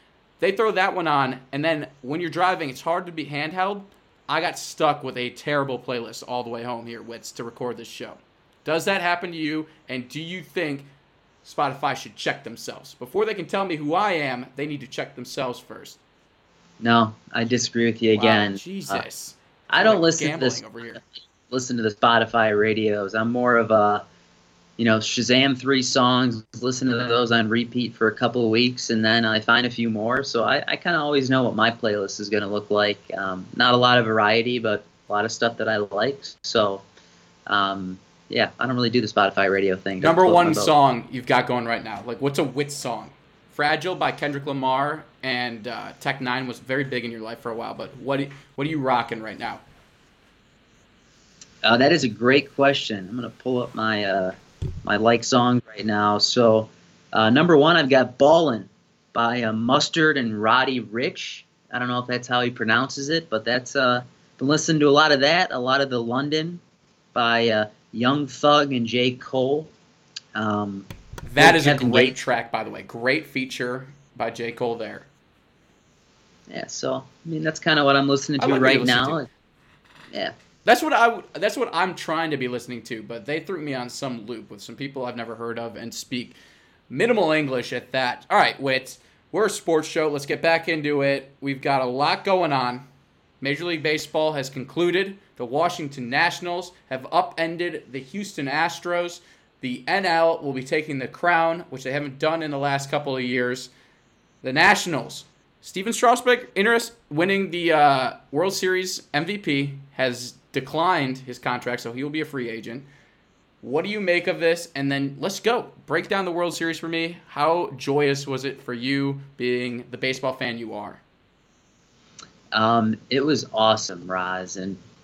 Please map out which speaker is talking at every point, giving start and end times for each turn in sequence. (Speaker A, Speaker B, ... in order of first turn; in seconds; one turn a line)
Speaker A: 0.4-10.9
Speaker A: 11.4-16.0
Speaker B: 16.8-19.0
Speaker A: 18.1-21.0
Speaker B: 19.7-24.0
Speaker B: 24.8-36.8
Speaker B: 37.5-40.7
Speaker A: 40.0-49.6
Speaker B: 51.6-66.6
Speaker B: 67.1-69.7
Speaker B: 70.3-72.2
Speaker A: 71.2-75.1
Speaker B: 76.5-79.3
Speaker A: 78.4-79.2
Speaker A: 80.6-86.4
Speaker A: 86.9-92.8
Speaker A: 93.4-103.7
Speaker A: 104.4-112.9
Speaker A: 113.6-121.0
Speaker B: 122.5-124.8